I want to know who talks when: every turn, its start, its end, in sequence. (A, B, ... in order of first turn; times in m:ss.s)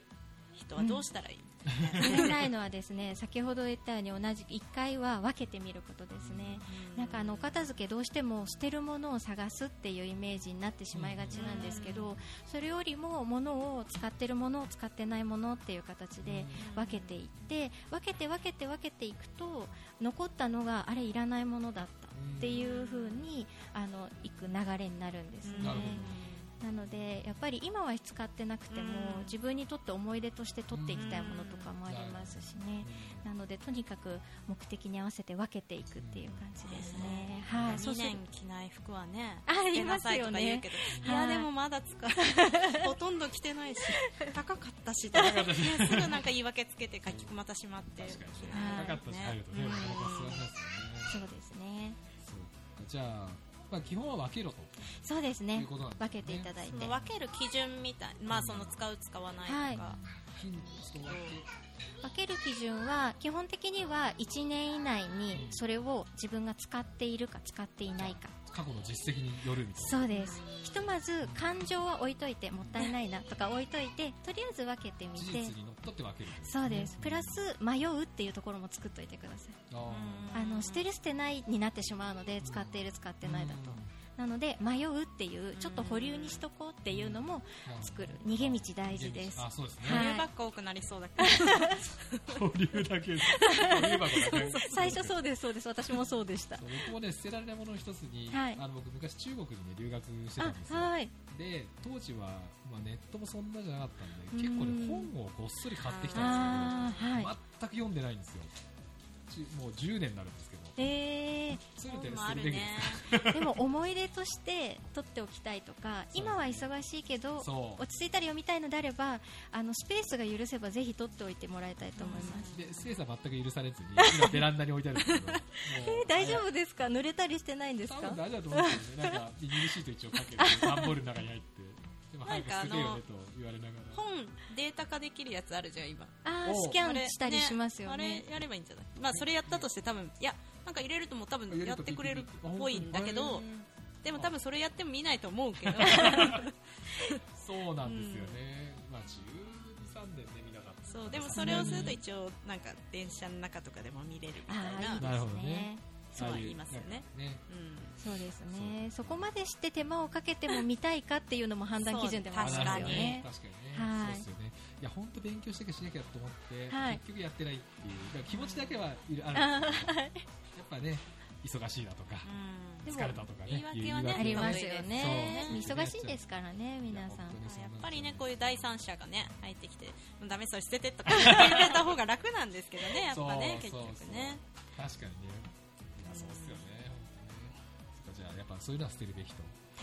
0:00.5-0:02.5 A
0:00.8-0:01.1 B
0:01.7-0:02.3 C
0:01.9-0:26.1 B
0:06.2-0:06.6 C
0:06.6-0:07.6 A
0:10.9-0:11.8 C
0:11.3-0:12.1 A
0:16.2-0:16.6 C
0:16.6-0:17.2 A
0:22.1-0:22.6 C
0:22.5-0:23.3 A
0:25.4-0:26.5 A
0:25.6-0:26.4 C
0:26.6-0:38.2 B
0:28.7-0:29.4 A
0:30.7-0:31.2 C
0:30.9-0:31.7 A
0:31.8-0:33.3 C
0:36.0-0:36.4 C
0:36.6-0:50.4 A
0:37.0-0:37.8 C
0:39.5-0:41.5 B
0:40.9-0:41.2 C
0:42.2-0:42.9 B
0:43.9-0:44.3 B
0:45.1-0:46.3 C
0:47.1-0:47.3 C
0:48.0-0:51.2 C
0:48.5-0:49.0 B
0:51.0-0:52.0 B
0:52.2-0:54.7 C
0:55.0-0:56.9 B
0:55.5-0:57.1 C
0:56.7-1:00.0 A
0:58.3-0:58.8 C
0:59.4-0:59.8 B
0:59.7-1:01.5 C
1:01.0-1:01.4 A
1:02.0-1:08.3 B
1:05.3-1:05.6 C
1:08.0-1:10.1 C
1:09.8-1:15.5 B
1:10.1-1:10.8 A
1:11.2-1:11.5 C
1:12.6-1:12.9 C
1:15.1-1:17.4 C
1:16.4-1:19.6 B
1:19.7-1:20.3 C
1:19.9-1:20.9 A
1:20.3-1:30.3 B
1:22.4-1:23.9 C
1:25.5-1:26.4 A
1:26.9-1:30.2 C
1:29.8-1:32.4 A
1:31.2-1:31.8 B
1:32.1-1:35.2 C
1:33.3-1:36.7 B
1:34.2-1:34.9 A
1:36.6-1:48.5 C
1:38.3-1:38.6 B
1:40.4-1:41.1 B
1:44.3-1:45.1 B
1:45.8-1:47.1 A
1:46.1-1:47.3 B
1:49.3-1:50.8 C
1:50.8-1:51.6 B
1:51.7-1:53.6 C
1:51.9-1:53.1 A
1:53.2-2:02.5 B
1:56.1-1:56.7 C
1:57.4-1:57.8 C
2:02.0-2:02.7 A
2:02.5-2:06.5 C
2:04.0-2:04.4 B
2:05.0-2:05.4 A
2:05.7-2:09.2 B
2:07.8-2:14.0 C
2:10.4-2:10.9 B
2:12.2-2:13.0 A
2:13.9-2:16.2 A
2:16.2-2:18.2 B
2:16.4-2:16.8 C
2:16.8-2:27.2 A
2:19.1-2:19.6 C
2:21.5-2:23.4 C
2:25.6-2:26.5 C
2:25.9-2:26.4 B
2:27.2-2:32.0 C
2:27.8-2:28.4 A
2:30.9-2:35.1 A
2:31.3-2:32.0 B
2:34.5-2:35.8 B
2:35.0-2:37.4 C
2:36.1-2:38.0 A
2:38.0-2:44.2 B
2:38.5-2:39.3 C
2:41.8-2:43.2 A
2:42.4-2:50.0 C
2:46.7-2:47.0 B
2:48.3-2:48.7 A
2:49.3-2:50.2 B
2:50.5-2:52.3 C
2:52.2-2:55.6 A
2:52.8-2:56.2 C
2:52.8-2:53.2 B
2:54.1-2:57.4 B
2:56.9-2:58.3 C
2:57.4-3:04.4 A
3:01.0-3:01.9 C
3:03.0-3:09.5 C
3:06.1-3:06.6 A